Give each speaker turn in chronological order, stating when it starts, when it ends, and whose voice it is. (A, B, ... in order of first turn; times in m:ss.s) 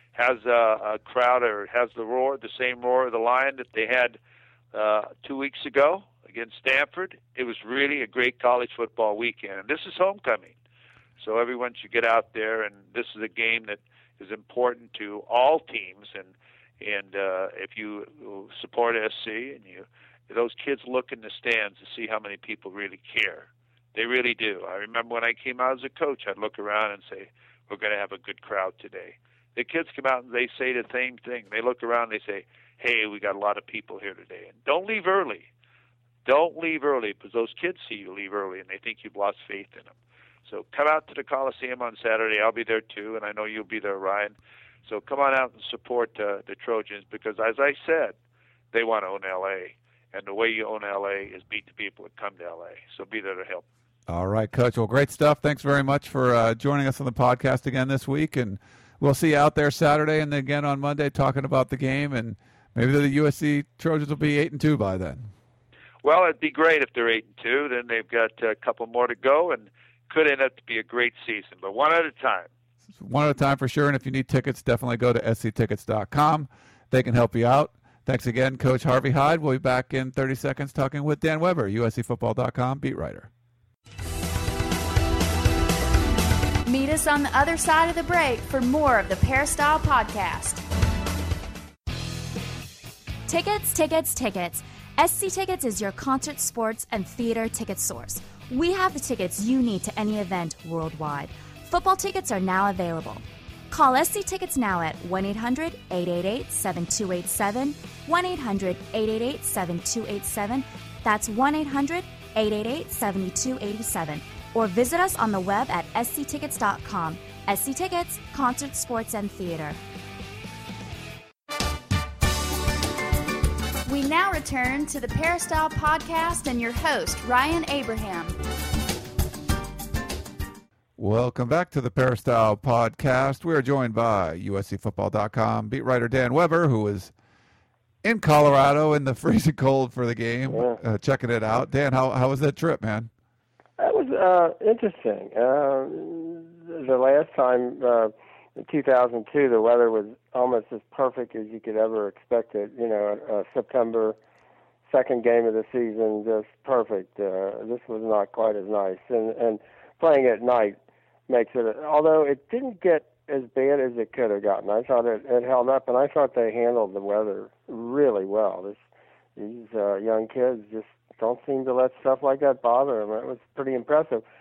0:00.2-0:04.2 A
0:04.7-0:10.5 A
0:11.2-0:35.4 A
0:36.2-0:39.9 A
0:40.5-0:44.4 A
0:44.9-0:48.1 A
0:48.7-0:53.6 A
0:54.1-1:05.3 B
1:06.0-1:12.5 A
1:13.0-1:23.3 B
1:26.7-1:30.6 C
1:33.3-1:59.8 D
2:03.9-2:08.4 C
2:11.0-2:17.1 B
2:18.0-2:23.1 B
2:20.5-2:20.8 E
2:23.8-2:34.2 E
2:34.9-2:40.8 E
2:41.3-2:48.8 E
2:49.4-2:54.2 E